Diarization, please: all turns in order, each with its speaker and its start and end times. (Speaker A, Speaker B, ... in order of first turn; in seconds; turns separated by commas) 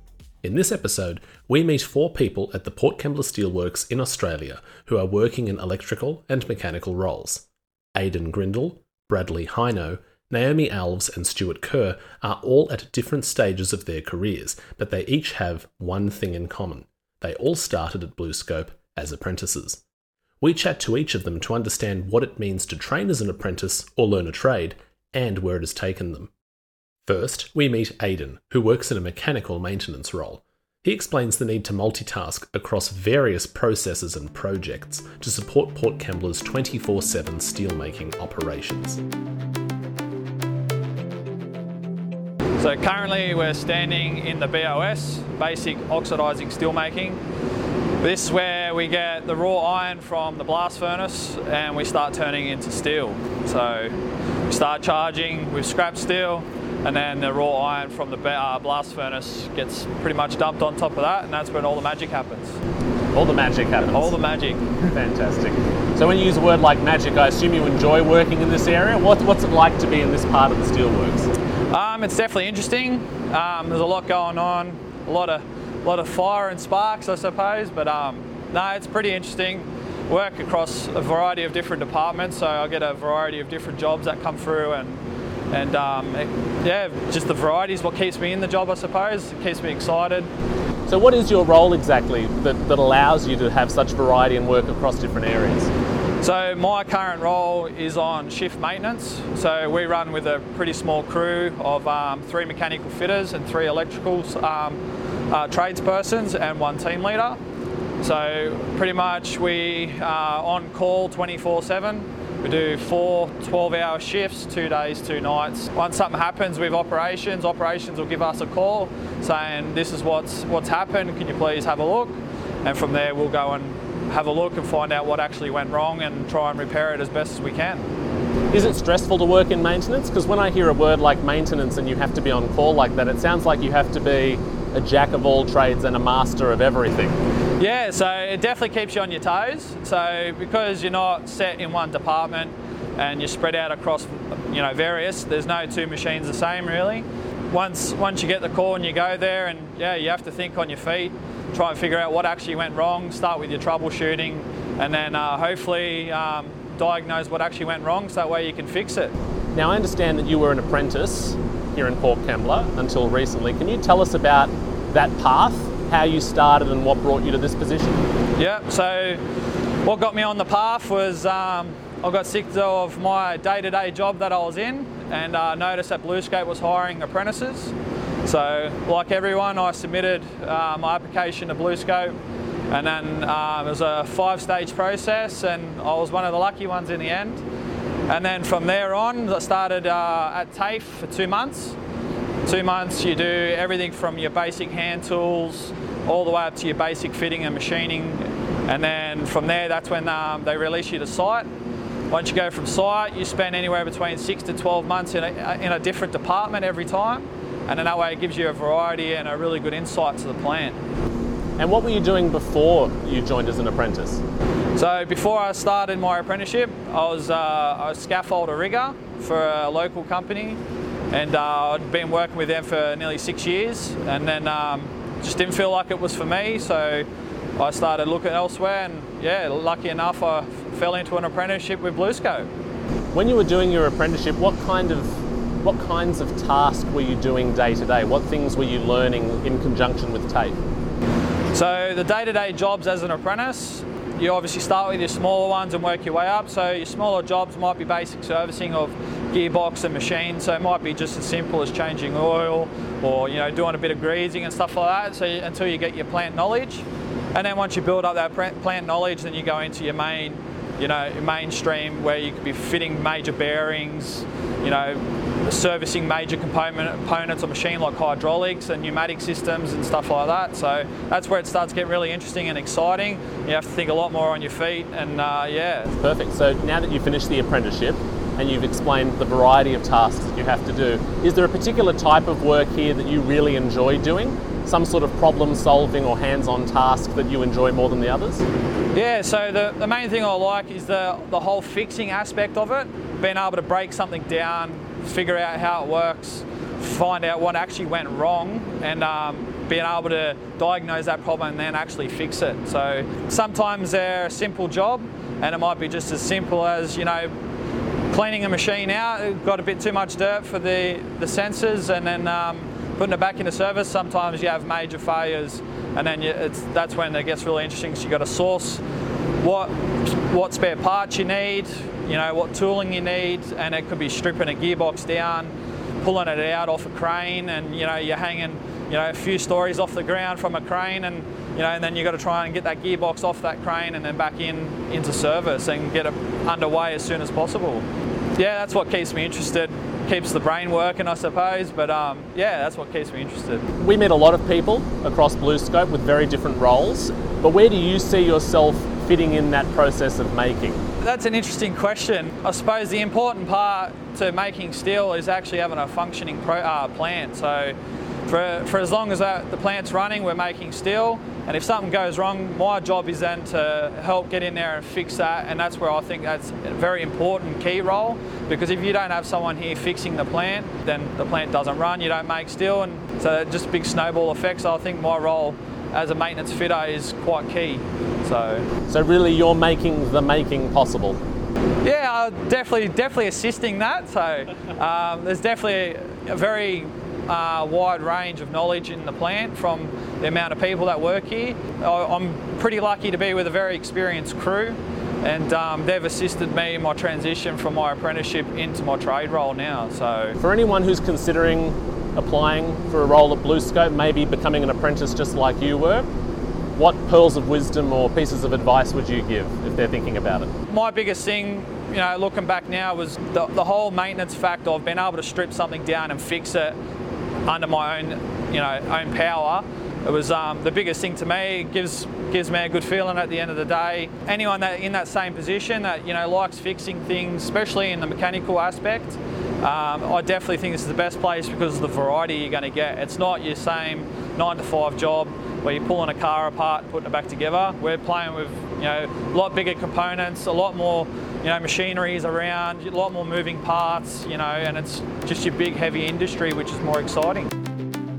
Speaker A: 0.4-19.8, Speaker A: 20.4-26.3, Speaker A: 27.1-39.0, Speaker B: 42.6-47.2, Speaker B: 48.0-54.0, Speaker B: 54.5-62.6, Speaker A: 63.1-64.2, Speaker B: 63.9-64.8, Speaker A: 64.8-71.3, Speaker B: 71.7-90.3, Speaker A: 90.9-95.7, Speaker B: 96.2-107.4, Speaker B: 108.0-127.9, Speaker A: 128.5-137.2, Speaker B: 137.6-159.1, Speaker A: 159.5-168.1, Speaker B: 168.4-169.2, Speaker B: 169.8-182.2, Speaker B: 182.7-187.4, Speaker B: 188.1-191.8, Speaker B: 192.5-201.5, Speaker B: 202.1-210.8, Speaker A: 211.6-214.2, Speaker B: 214.8-220.6, Speaker B: 221.1-227.1, Speaker B: 227.6-232.5, Speaker A: 233.1-240.6, Speaker B: 241.5-275.9, Speaker A: 275.9-288.5, Speaker B: 288.9-307.3, Speaker B: 308.1-318.8, Speaker B: 319.4-337.8, Speaker B: 338.4-343.7, Speaker A: 343.8-350.8, Speaker B: 351.0-357.8, Speaker B: 358.3-378.7, Speaker A: 378.9-381.2, Speaker B: 381.8-400.4, Speaker A: 400.4-406.1, Speaker A: 406.8-410.5, Speaker B: 410.7-416.8, Speaker B: 417.5-447.5